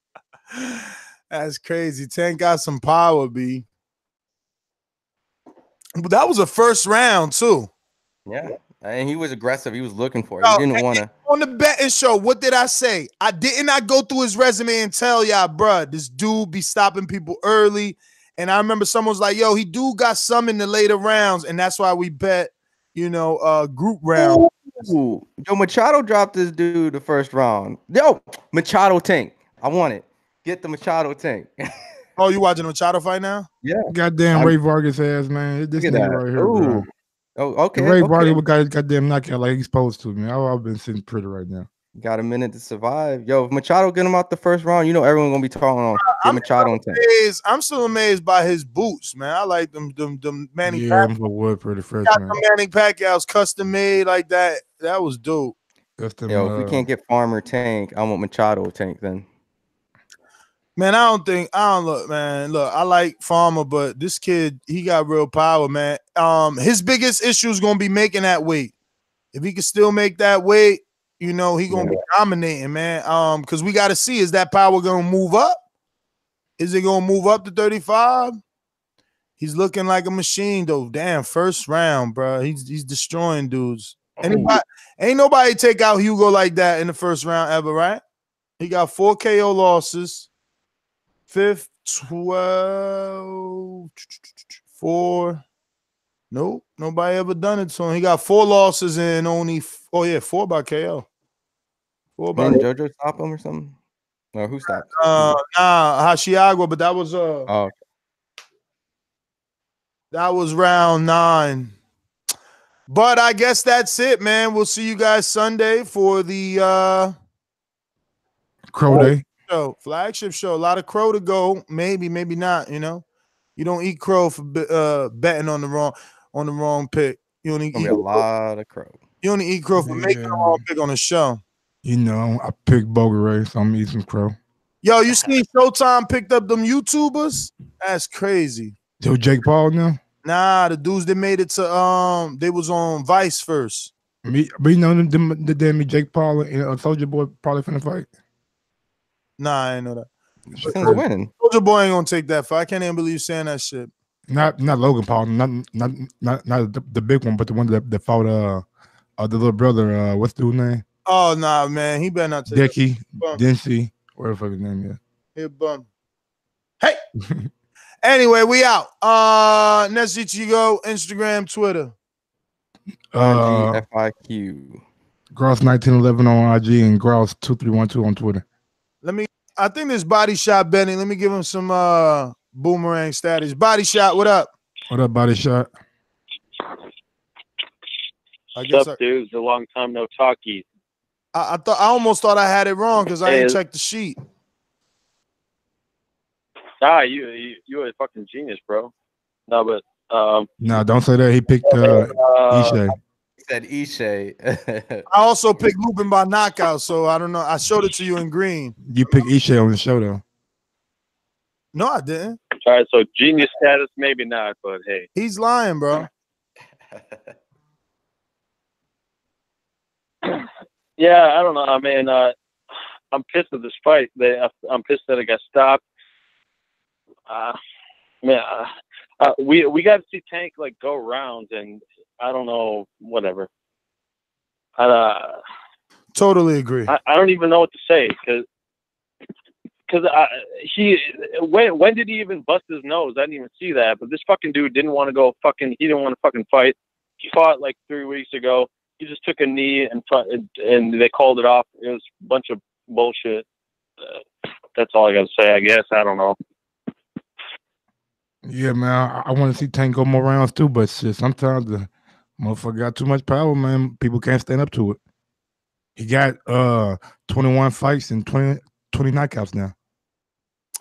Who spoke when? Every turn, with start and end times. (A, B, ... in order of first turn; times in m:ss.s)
0:00.5-0:03.6 A
0:06.0-0:07.7 A
0:08.3-0:11.1 B
0:10.4-0:24.4 A
0:24.1-0:31.7 B
0:32.2-0:33.5 A
0:33.6-0:34.5 B
0:33.9-0:36.9 C
0:35.8-0:38.4 B
0:37.7-0:41.7 C
0:42.0-0:47.0 B
0:46.0-0:51.1 A
0:50.6-0:52.4 C
0:52.1-0:55.5 A
0:56.0-0:56.9 C
0:56.3-0:59.2 B
1:00.8-1:08.7 A
1:09.3-1:15.6 A
1:16.6-1:18.4 A
1:19.4-1:28.0 A
1:24.2-1:24.5 C
1:28.6-1:30.3 A
1:31.3-1:33.7 A
1:34.8-1:35.4 A
1:36.3-1:41.0 A
1:42.2-1:42.6 A
1:42.3-1:43.7 B
1:44.3-1:45.4 B
1:45.0-1:47.5 A
1:47.5-1:47.7 B
1:50.1-1:51.7 A
1:52.9-1:57.1 A
1:58.7-1:59.2 C
1:58.9-2:03.0 A
2:03.6-2:08.2 A
2:07.7-2:09.0 B
2:09.2-2:11.4 A
2:09.8-2:10.6 C
2:11.8-2:14.4 C
2:14.8-2:18.7 A
2:19.0-2:20.0 C
2:20.2-2:23.9 A
2:24.2-2:28.1 C
2:29.4-2:30.1 A
2:30.6-2:31.0 C
2:30.6-2:31.3 B
2:30.6-2:33.9 A
2:34.3-2:38.6 C
2:39.2-2:40.8 C
2:41.0-2:43.4 A
2:42.5-2:45.0 C
2:45.4-2:45.8 A
2:47.2-2:47.5 C
2:48.0-2:51.9 A
2:53.1-2:53.8 C
2:53.2-2:54.8 B
2:55.3-2:58.4 C
2:59.0-3:04.5 A
3:04.9-3:05.7 C
3:08.6-3:09.0 A
3:08.6-3:10.6 D
3:11.3-3:14.2 A
3:13.2-3:13.6 D
3:16.8-3:18.9 D
3:19.5-3:20.5 D
3:20.6-3:22.9 C
3:21.7-3:22.8 D
3:23.4-3:25.1 B
3:25.1-3:28.8 A
3:28.8-3:30.2 C
3:31.7-3:32.4 A
3:32.6-3:35.1 D
3:35.1-3:36.1 A
3:41.0-3:42.3 D
3:43.1-3:45.8 D
3:47.3-3:47.6 D
3:48.2-3:53.5 D
3:54.8-3:55.4 D
3:56.1-3:56.9 A
3:56.9-3:58.4 D
3:59.9-4:13.4 D
4:14.8-4:16.4 D
4:18.4-4:25.0 C
4:26.0-4:29.7 C